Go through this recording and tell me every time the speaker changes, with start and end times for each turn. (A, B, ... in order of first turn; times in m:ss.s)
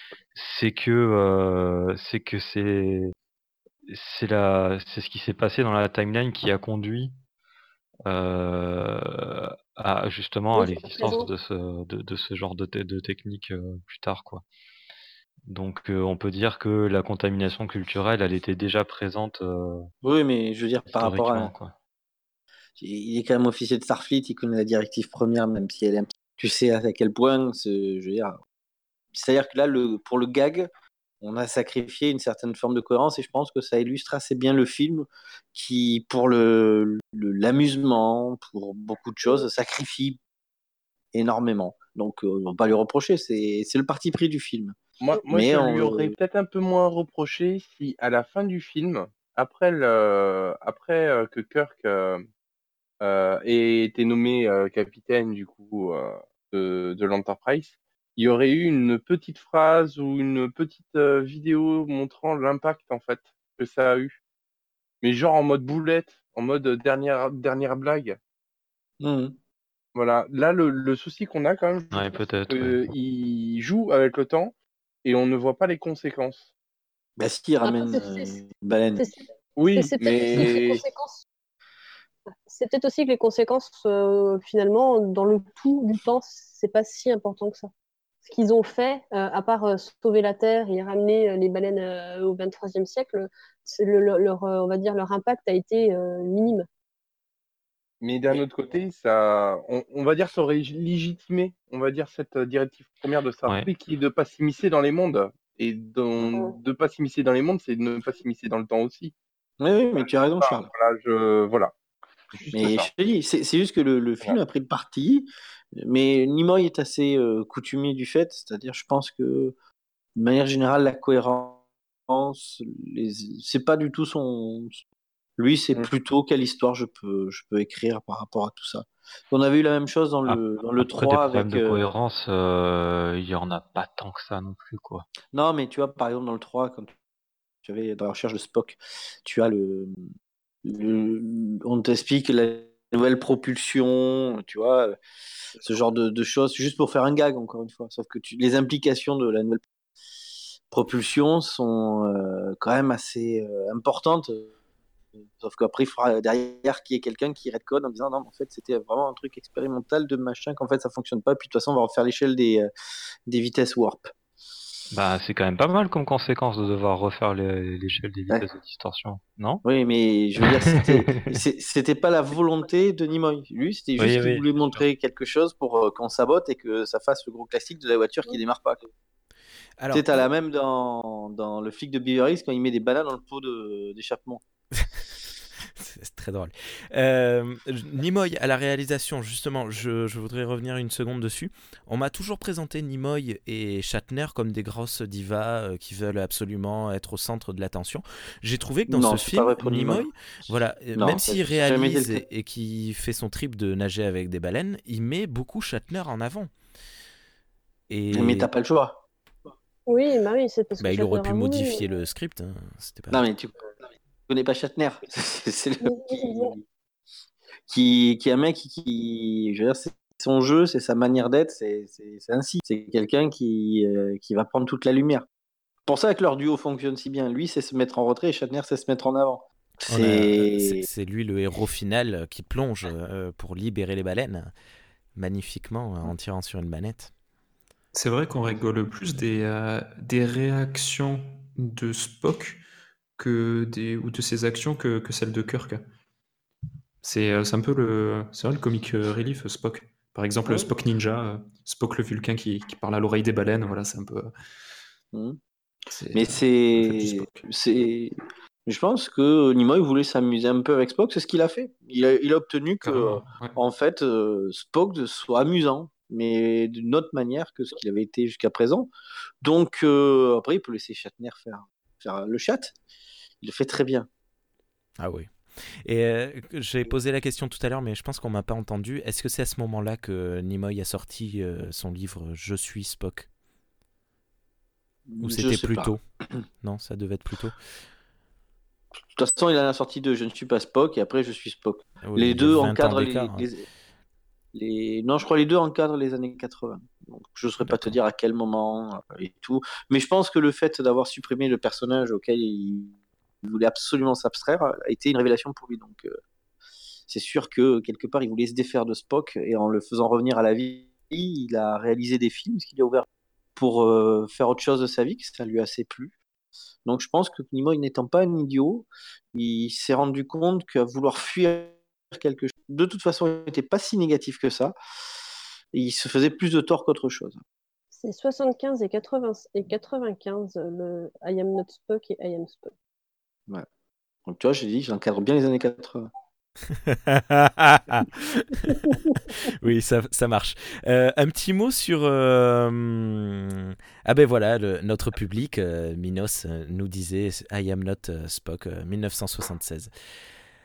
0:00.3-0:03.1 A
0:03.9-0:07.1 A
0:08.0-0:14.4 A
0:10.6-0:11.3 B
0:15.5-0:19.9 A
0:20.0-0:21.5 C
0:20.9-0:21.7 A
0:22.8-0:28.4 C
0:29.1-0:30.7 C
0:31.2-0:40.2 C
0:41.1-0:44.8 C
0:45.0-0:52.2 D
0:45.3-0:46.1 C
0:53.0-1:04.2 D
1:05.0-1:08.2 D
1:09.0-1:09.4 C
1:09.9-1:16.5 D
1:11.9-1:12.8 A
1:17.2-1:19.1 C
1:17.6-1:18.4 B
1:19.0-1:21.2 B
1:19.6-1:20.8 D
1:22.5-1:27.7 B
1:28.2-1:36.7 B
1:38.0-1:49.1 D
1:49.6-1:50.7 C
1:50.0-1:51.7 D
1:52.3-1:52.9 D
1:52.5-1:59.5 C
2:00.2-2:04.8 C
2:05.4-2:11.9 C
2:10.3-2:15.0 A
2:15.3-2:16.9 C
2:17.6-2:20.1 C
2:20.6-2:25.0 C
2:25.6-2:29.6 C
2:30.7-2:34.5 C
2:35.2-2:42.7 C
2:43.3-2:44.1 C
2:44.9-2:49.6 A
2:49.6-2:58.9 C
2:50.4-2:51.4 A
2:54.0-2:54.8 A
2:59.8-3:00.2 E
2:59.9-3:04.4 C
3:05.6-3:26.5 E
3:18.9-3:20.1 C
3:20.9-3:22.2 C
3:27.9-3:28.5 E
3:28.1-3:29.0 C
3:29.9-3:31.8 B
3:30.8-3:33.2 E
3:33.1-3:33.7 C
3:34.3-3:36.6 C
3:35.8-3:36.5 B
3:37.7-3:45.2 C
3:45.8-3:50.8 C
3:49.9-3:54.5 E
3:55.1-3:57.1 E
3:57.9-4:02.6 F
4:03.2-4:05.9 F
4:07.0-4:14.3 F
4:15.1-4:15.4 C
4:15.9-4:17.5 F
4:16.1-4:28.9 C
4:22.8-4:23.6 F
4:29.4-4:32.7 C
4:33.4-4:34.1 C
4:35.0-4:43.3 E
4:45.1-4:46.4 C
4:45.2-4:46.0 E
4:46.6-4:47.6 E
4:49.1-4:53.6 C
4:52.0-4:53.5 E
4:54.5-5:06.2 C
4:57.6-4:57.9 E
5:07.1-5:16.1 C
5:16.8-5:24.7 C
5:25.7-5:27.4 C
5:27.9-5:32.7 B
5:34.2-5:36.1 C
5:36.8-5:49.9 E